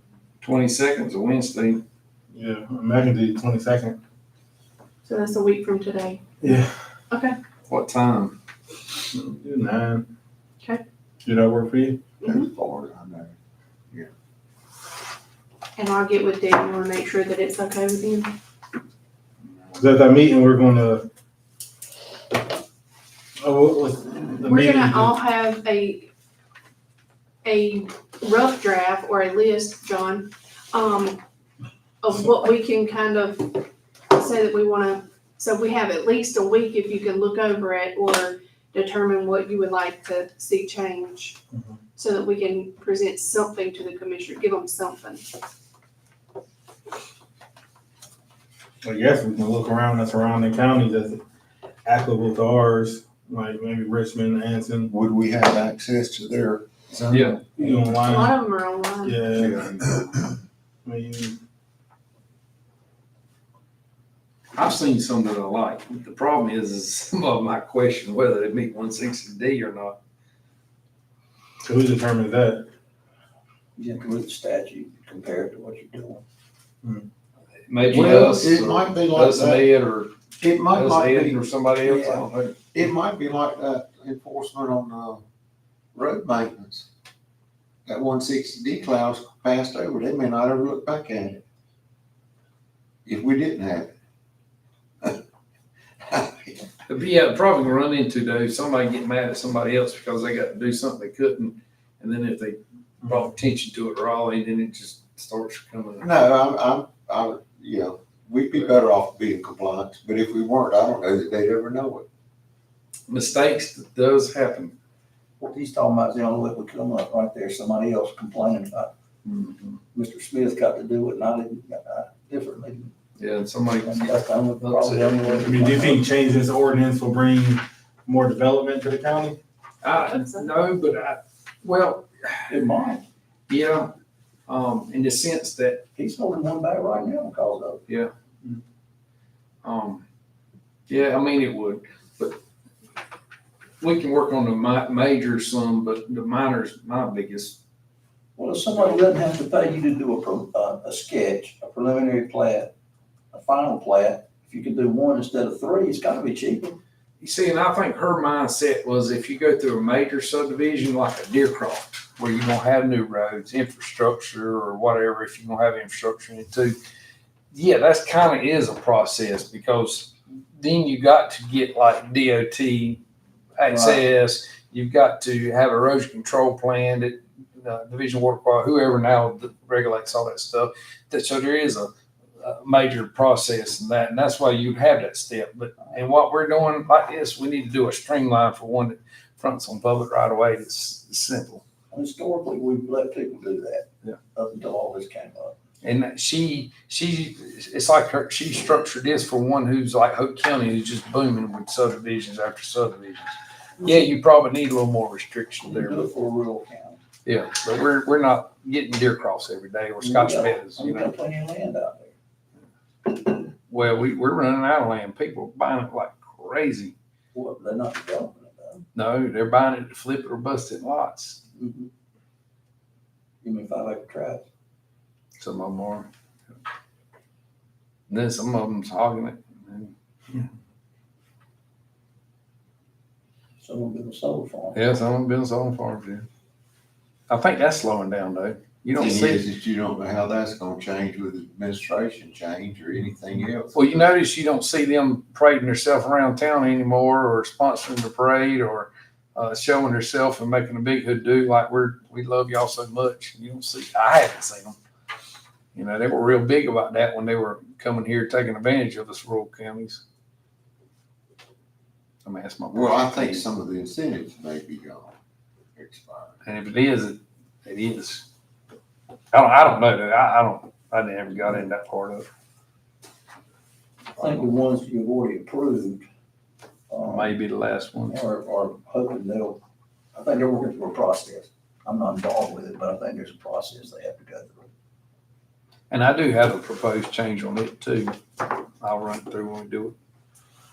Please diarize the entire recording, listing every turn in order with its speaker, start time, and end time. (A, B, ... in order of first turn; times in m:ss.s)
0:00.4-0:01.8 A
0:02.3-0:04.0 B
0:05.0-0:06.2 C
0:06.4-0:06.7 B
0:07.1-0:07.4 C
0:07.7-0:08.4 A
0:09.3-0:10.1 B
0:11.2-0:12.0 B
0:12.2-0:12.5 C
0:12.2-0:13.3 D
0:15.8-0:18.4 C
0:19.7-0:21.1 B
0:23.4-0:25.1 B
0:24.4-0:26.1 C
0:27.4-0:31.2 C
0:32.0-0:41.4 C
0:42.0-0:45.3 C
0:48.8-0:51.2 B
0:51.8-0:54.9 B
0:54.9-0:57.4 D
0:57.1-0:57.4 A
0:57.6-0:58.4 B
0:58.0-0:59.2 C
0:59.0-0:59.8 B
0:59.4-1:00.3 D
1:00.8-1:01.4 B
1:04.5-1:10.0 A
1:11.6-1:12.7 B
1:13.8-1:16.2 E
1:16.8-1:17.1 B
1:17.7-1:22.6 A
1:17.9-1:19.7 D
1:20.4-1:21.4 D
1:21.8-1:22.3 E
1:22.7-1:25.2 D
1:25.9-1:26.9 D
1:27.8-1:31.4 D
1:33.0-1:33.9 D
1:36.0-1:36.7 D
1:36.9-1:46.1 A
1:46.0-1:52.0 D
1:53.1-1:54.7 A
1:55.4-1:58.9 E
1:59.2-1:59.8 A
1:59.9-2:02.9 E
2:03.2-2:05.5 A
2:03.8-2:06.0 E
2:05.4-2:09.4 B
2:09.8-2:12.6 A
2:09.9-2:10.5 C
2:12.5-2:13.0 E
2:13.5-2:13.9 A
2:14.5-2:15.8 A
2:16.0-2:17.8 E
2:19.6-2:20.0 A
2:20.9-2:22.4 A
2:23.8-2:27.6 A
2:28.4-2:32.7 E
2:33.3-2:36.8 E
2:37.2-2:46.8 A
2:47.5-2:53.0 A
2:53.6-3:11.6 A
2:53.7-2:54.0 E
3:11.9-3:15.5 E
3:15.8-3:26.1 A
3:25.6-3:27.0 E
3:27.2-3:31.1 A
3:30.0-3:32.1 E
3:33.1-3:36.9 A
3:37.3-3:38.8 E
3:38.9-3:41.4 A
3:41.5-3:41.9 E
3:43.4-3:44.5 E
3:45.4-3:46.1 A
3:48.1-3:50.5 A
3:53.6-3:54.8 E
3:54.7-3:56.3 A
3:57.3-3:59.4 A
3:58.9-4:04.0 D
4:03.7-4:14.8 A
4:15.7-4:20.0 A
4:22.2-4:23.4 A
4:22.7-4:25.1 D
4:25.7-4:26.3 D
4:26.4-4:28.3 A
4:29.3-4:32.3 A
4:34.1-4:36.0 E
4:36.9-4:37.3 E
4:37.0-4:38.2 A
4:38.1-4:39.6 E
4:40.1-4:44.7 E
4:45.9-4:48.2 A
4:48.8-4:49.9 A